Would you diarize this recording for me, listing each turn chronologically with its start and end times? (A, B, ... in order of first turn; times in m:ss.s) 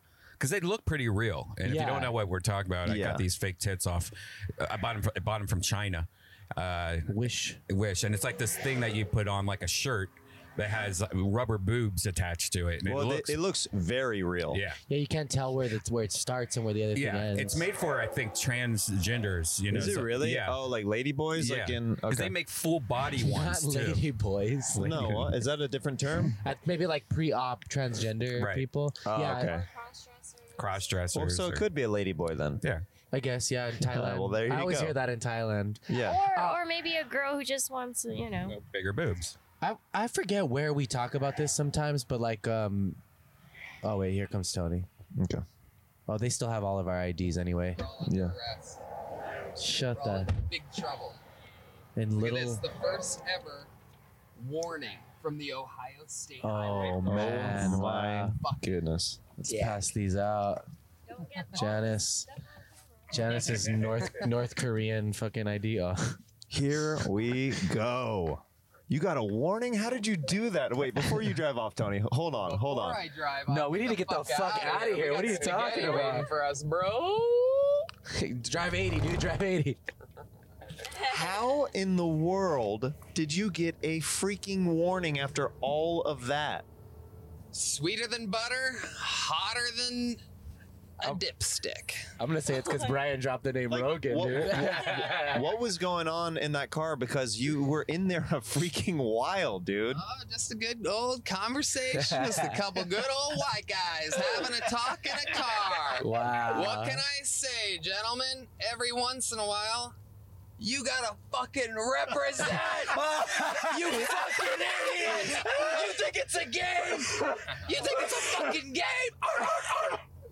0:00.4-0:07.1 A
0:01.6-0:02.1 B
0:02.8-0:03.2 C
0:07.1-0:07.6 B
0:07.7-0:13.4 A
0:12.8-0:14.6 C
0:14.5-0:14.8 A
0:14.9-0:17.7 B
0:17.0-0:20.6 A
0:19.7-0:22.3 C
0:21.4-0:24.0 A
0:23.2-0:25.2 B
0:24.8-0:26.4 C
0:24.8-0:25.2 A
0:26.4-0:29.5 B
0:28.4-0:28.6 A
0:29.0-0:29.7 C
0:29.4-0:30.9 D
0:30.6-0:31.7 A
0:31.1-0:32.6 C
0:33.1-0:36.6 B
0:33.8-0:35.0 C
0:35.9-0:36.2 C
0:36.0-0:38.6 D
0:38.4-0:39.4 A
0:39.6-0:43.0 B
0:43.8-0:44.9 B
0:45.2-0:45.4 C
0:46.1-0:47.8 B
0:47.8-0:48.8 E
0:48.0-0:48.4 C
0:49.6-0:50.3 B
0:49.9-0:51.2 E
0:52.0-0:52.6 B
0:52.2-0:53.7 E
0:54.4-0:57.7 E
0:56.4-0:58.4 B
0:57.0-0:59.5 C
0:58.4-0:58.7 E
0:59.5-0:59.8 E
0:59.5-1:00.6 B
1:01.1-1:03.4 D
1:01.5-1:02.3 B
1:03.1-1:06.2 B
1:06.5-1:13.1 C
1:12.4-1:17.9 E
1:13.5-1:16.3 B
1:18.1-1:19.8 B
1:21.0-1:26.7 C
1:27.5-1:30.2 E
1:31.0-1:32.1 E
1:32.2-1:35.4 B
1:33.7-1:40.0 C
1:39.9-1:50.0 E
1:41.9-1:42.6 B
1:46.0-1:47.0 B
1:50.6-1:56.5 E
1:53.0-1:58.3 B
1:57.3-2:00.0 E